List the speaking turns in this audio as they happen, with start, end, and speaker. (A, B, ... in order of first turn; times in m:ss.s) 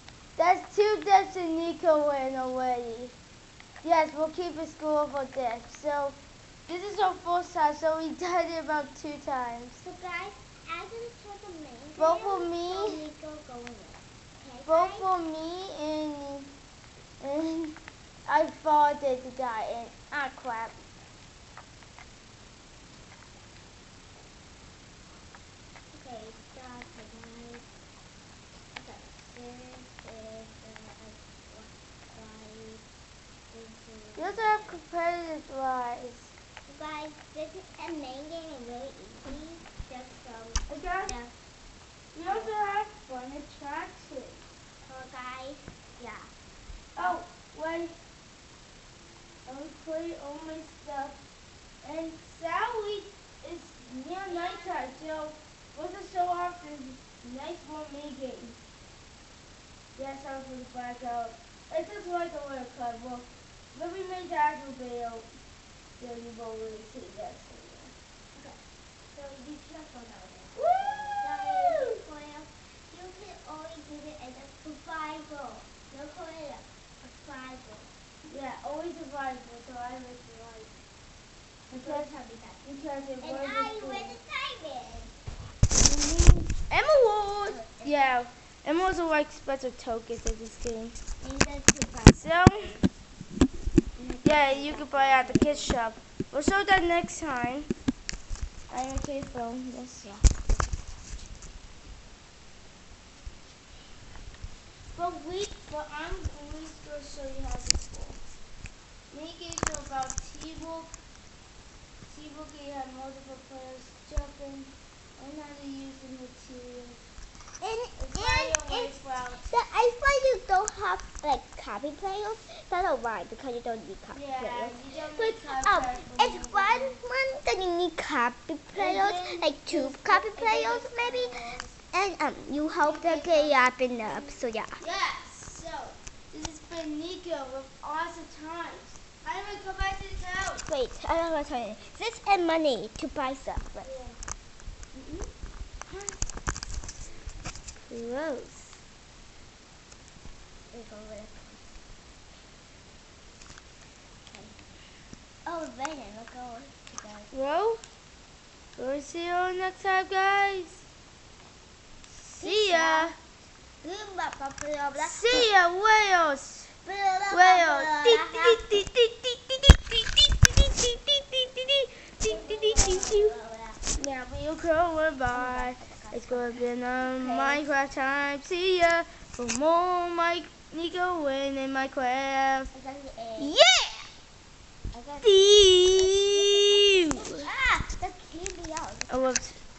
0:00.4-0:03.1 A
0:03.8-0:09.8 A
0:09.8-0:15.1 B
0:12.0-0:13.1 A
0:14.6-0:16.5 A
0:17.2-0:20.9 A
0:25.9-0:27.6 B
0:28.7-0:32.8 B
0:33.5-0:34.8 B
0:34.2-0:36.3 A
0:36.6-0:41.3 B
0:40.7-0:41.1 A
0:42.1-0:44.4 A
0:42.2-0:42.7 B
0:44.8-0:46.3 B
0:47.0-0:47.9 A
0:49.4-0:51.2 A
0:51.8-0:58.6 A
0:54.2-0:55.0 B
0:59.9-1:05.3 A
1:06.0-1:07.9 A
1:08.3-1:08.6 B
1:09.1-1:17.9 B
1:10.5-1:10.9 A
1:11.5-1:12.0 A
1:18.3-1:20.8 A
1:21.7-1:22.6 B
1:21.7-1:22.1 A
1:22.6-1:24.2 A
1:23.2-1:25.1 B
1:25.7-1:31.0 A
1:27.4-1:28.2 B
1:31.2-1:32.9 B
1:32.1-1:32.8 A
1:34.0-1:35.8 B
1:34.2-1:37.7 A
1:38.7-1:40.4 A
1:44.9-1:48.2 A
1:49.1-1:50.9 A
1:52.1-1:57.0 A
1:57.6-2:11.4 B
1:58.0-1:59.4 A
2:04.1-2:07.0 A
2:08.7-2:11.8 A
2:11.9-2:14.8 B
2:12.8-2:20.6 A
2:20.6-2:23.9 B
2:23.8-2:24.2 A
2:25.0-2:25.2 A
2:25.9-2:26.1 A
2:27.8-2:28.8 A
2:30.7-2:31.7 B
2:34.3-2:34.6 B
2:35.4-2:37.3 B
2:37.3-2:37.8 A
2:38.8-2:40.8 A
2:42.2-2:43.2 A
2:42.3-2:43.1 B
2:43.8-2:45.5 B
2:45.0-2:46.7 A
2:46.8-2:48.8 B
2:47.3-2:53.3 A
2:52.2-2:53.8 B
2:53.9-3:02.7 A
2:55.3-2:57.7 B
3:02.7-3:03.6 B
3:03.4-3:04.0 A
3:04.9-3:09.2 B
3:05.2-3:07.4 A
3:09.1-3:09.6 A